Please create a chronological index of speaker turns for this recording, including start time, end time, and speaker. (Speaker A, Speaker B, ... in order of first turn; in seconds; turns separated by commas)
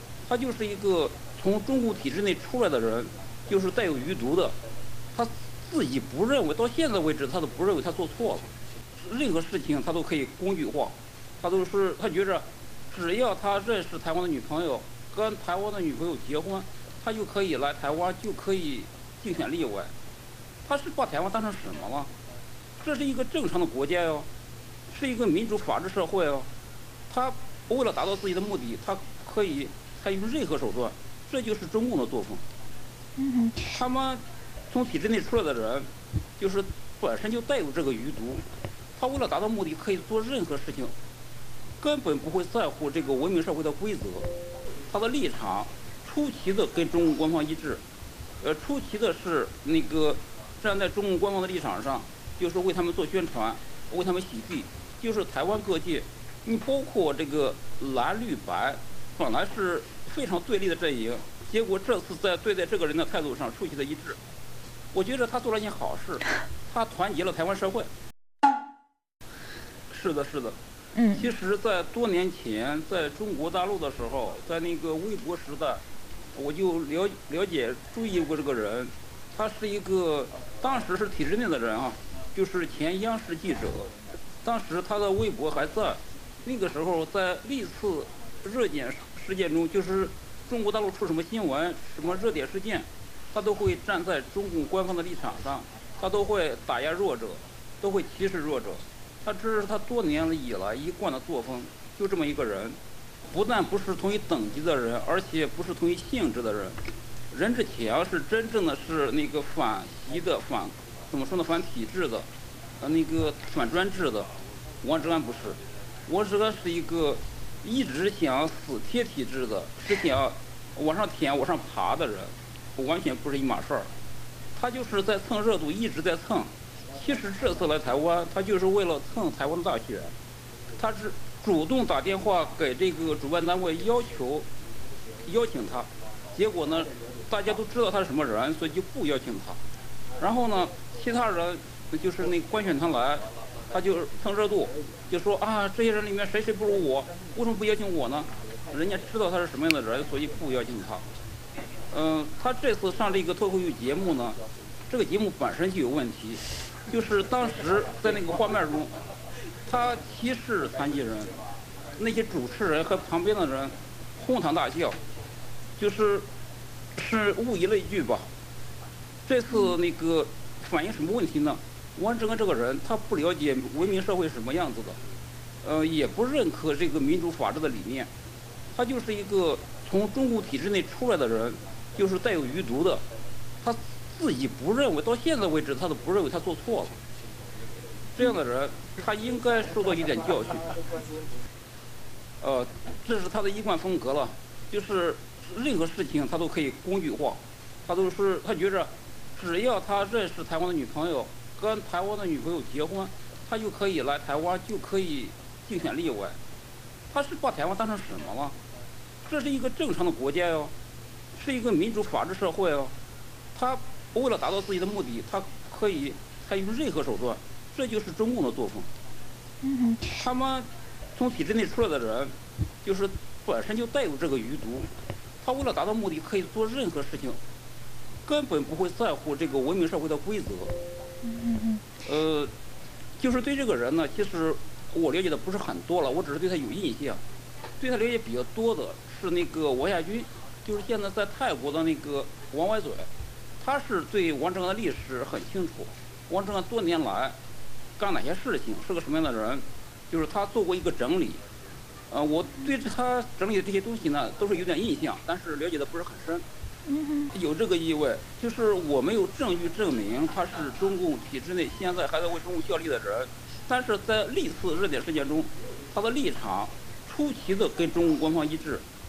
Speaker A: 0.3-4.6, Speaker A: 5.1-19.9, Speaker A: 20.6-22.1, Speaker A: 22.8-24.3, Speaker A: 24.9-26.5, Speaker A: 27.1-32.4, Speaker B: 33.2-33.6, Speaker A: 33.6-38.5, Speaker A: 39.0-40.9, Speaker A: 41.8-44.3, Speaker A: 44.9-47.8, Speaker A: 48.4-64.2, Speaker A: 64.9-67.9, Speaker A: 69.9-70.6, Speaker B: 71.0-71.3, Speaker A: 71.1-75.8, Speaker A: 76.3-83.9, Speaker A: 84.4-102.8, Speaker A: 103.3-106.8, Speaker A: 107.3-112.3, Speaker A: 112.8-114.3, Speaker A: 114.8-123.9, Speaker A: 124.5-130.1, Speaker A: 130.8-134.5, Speaker A: 135.2-139.6, Speaker A: 140.2-151.0, Speaker A: 151.9-154.4, Speaker A: 154.9-158.9, Speaker A: 159.7-161.3, Speaker A: 162.0-165.0, Speaker A: 165.8-166.3, Speaker A: 167.0-168.3, Speaker A: 169.3-175.0, Speaker A: 175.6-178.1, Speaker A: 178.8-183.0, Speaker A: 183.6-186.9, Speaker A: 188.2-190.7, Speaker A: 192.4-206.4, Speaker A: 207.1-208.6, Speaker A: 209.2-210.7, Speaker A: 211.3-212.9, Speaker A: 213.6-218.9, Speaker B: 219.6-220.2, Speaker A: 220.1-224.9, Speaker A: 225.4-227.4, Speaker A: 228.2-230.7, Speaker B: 231.2-231.8, Speaker A: 232.0-232.5, Speaker A: 233.2-237.2, Speaker A: 237.8-243.1, Speaker A: 243.6-247.4, Speaker A: 248.0-251.4, Speaker A: 252.1-256.4, Speaker B: 256.9-257.3, Speaker A: 257.3-268.8